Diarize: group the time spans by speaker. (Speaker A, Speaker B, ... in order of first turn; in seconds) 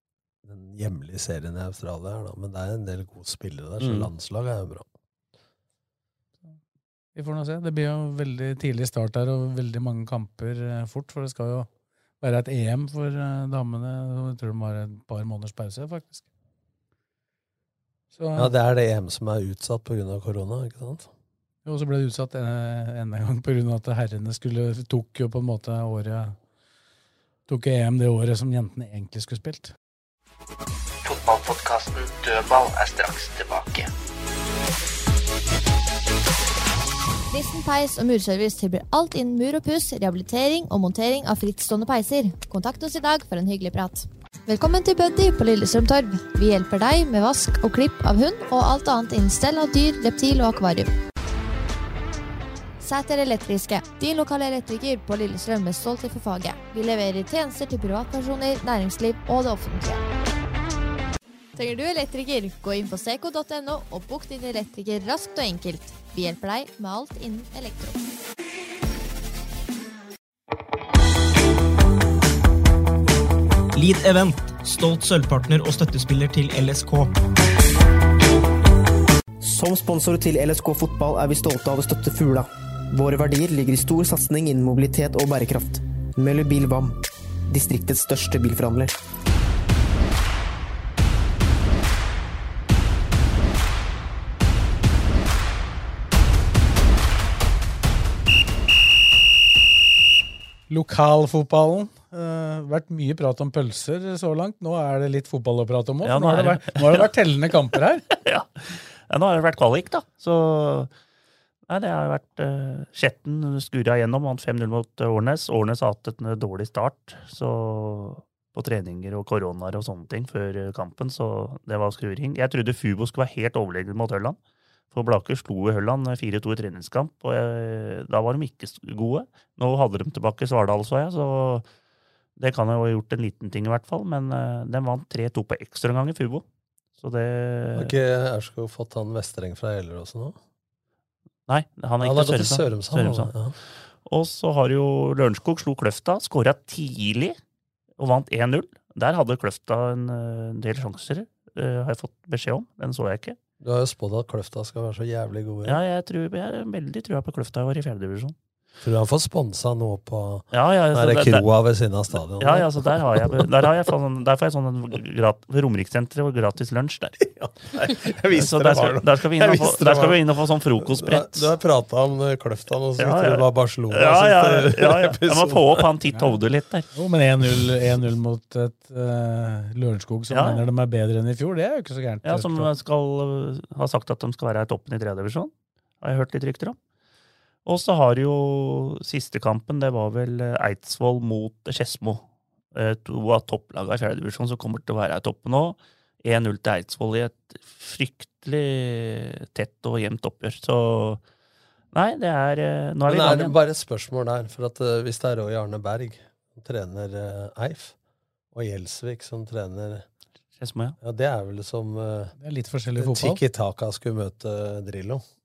Speaker A: 0.4-4.9, 18.4-21.1, 137.8-140.4, 142.0-143.6, 153.6-155.8, 158.8-163.7, 167.2-170.2, 170.8-175.9, 203.1-207.9, 208.5-210.1, 211.0-212.3, 213.0-215.2
Speaker B: 3.8-4.1, 106.0-107.1, 108.2-110.9, 111.7-124.4, 124.9-131.7, 132.4-136.4, 137.0-137.9, 141.5-143.3, 144.1-147.4, 148.0-153.4, 155.7-158.3, 160.5-161.5, 162.4-167.2, 168.3-171.5, 173.0-176.9, 180.3-180.6, 182.2-185.5, 186.0-186.8, 187.7-192.2, 192.7-201.2, 201.9-203.6, 210.6-211.0
Speaker C: 7.2-11.7, 12.2-16.2, 18.2-18.5, 21.6-26.4, 27.5-29.7, 100.7-108.0, 176.1-176.4, 176.9-182.7, 212.4-213.4
Speaker D: 31.1-33.9
Speaker E: 37.3-50.9, 52.8-60.0, 61.5-68.0
Speaker F: 73.8-77.1
Speaker G: 79.4-87.0, 87.5-88.9